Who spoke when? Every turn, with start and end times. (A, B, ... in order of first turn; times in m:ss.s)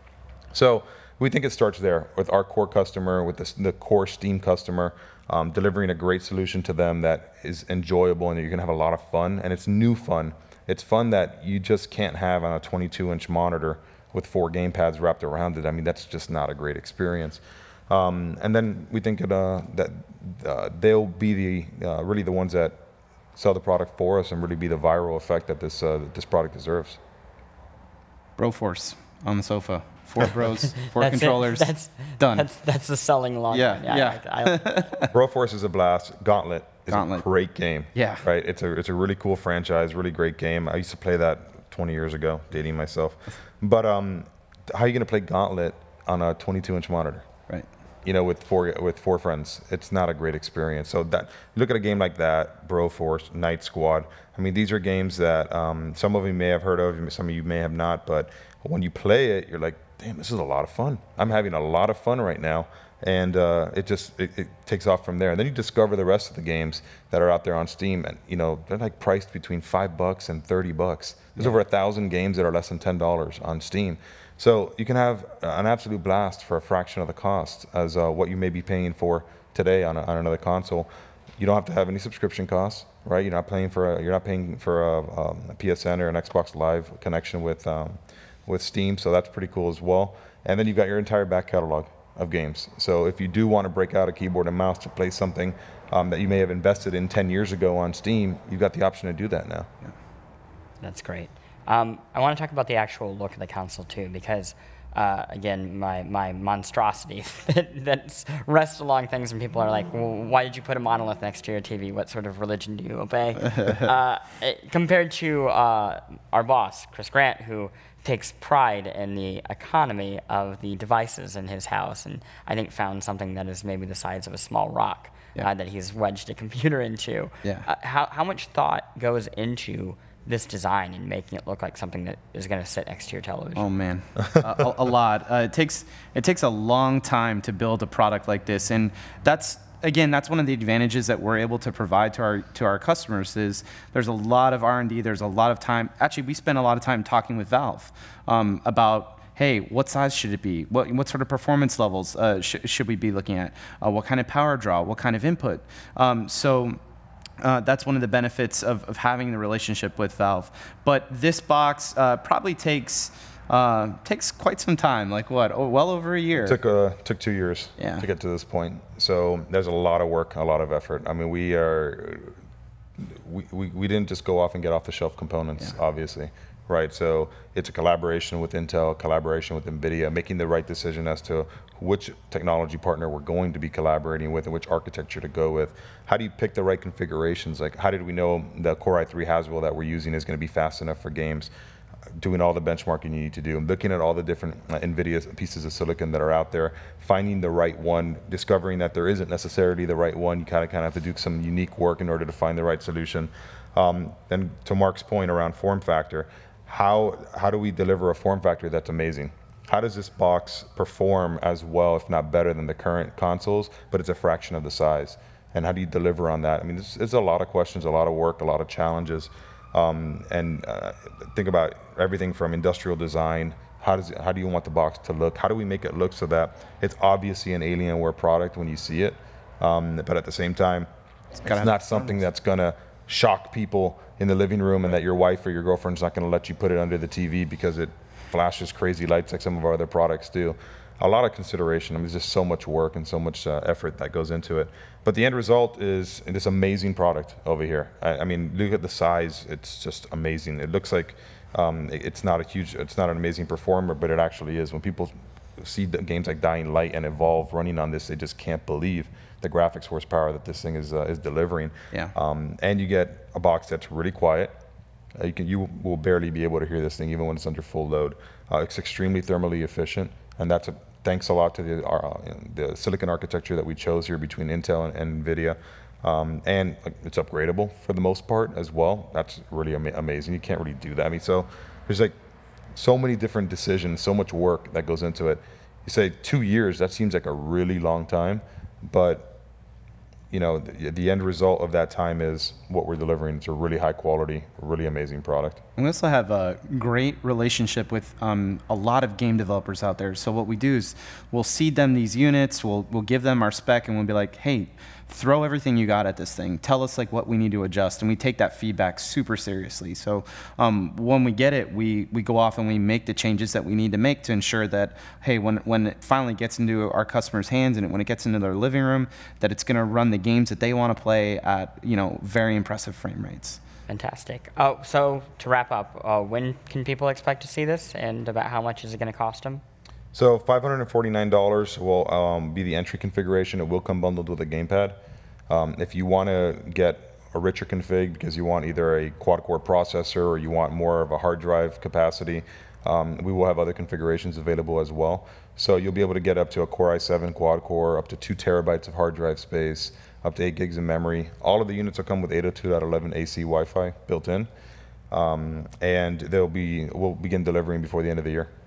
0:00.5-0:22.8 A
0:23.3-0:27.0 A
0:28.4-0:32.4 B
0:30.9-0:34.7 C
0:33.5-0:35.1 B
0:35.1-0:47.3 A
0:36.9-0:37.2 B
0:37.9-0:38.2 B
0:48.0-1:39.7 A
1:40.8-2:13.6 C
2:07.4-2:07.7 B
2:13.6-2:36.8 B
2:37.4-2:46.6 B
2:46.4-2:52.3 A
2:47.8-2:48.1 B
2:53.0-3:11.5 A
3:12.2-3:50.9 A
3:51.4-3:52.2 B
3:51.4-4:24.5 A
4:25.2-4:42.1 A
4:42.7-4:49.4 A
4:50.3-4:55.6 A
4:55.8-5:23.6 B
5:23.9-5:29.6 C
5:30.1-5:35.0 A
5:35.5-5:54.5 A
5:55.1-5:58.5 A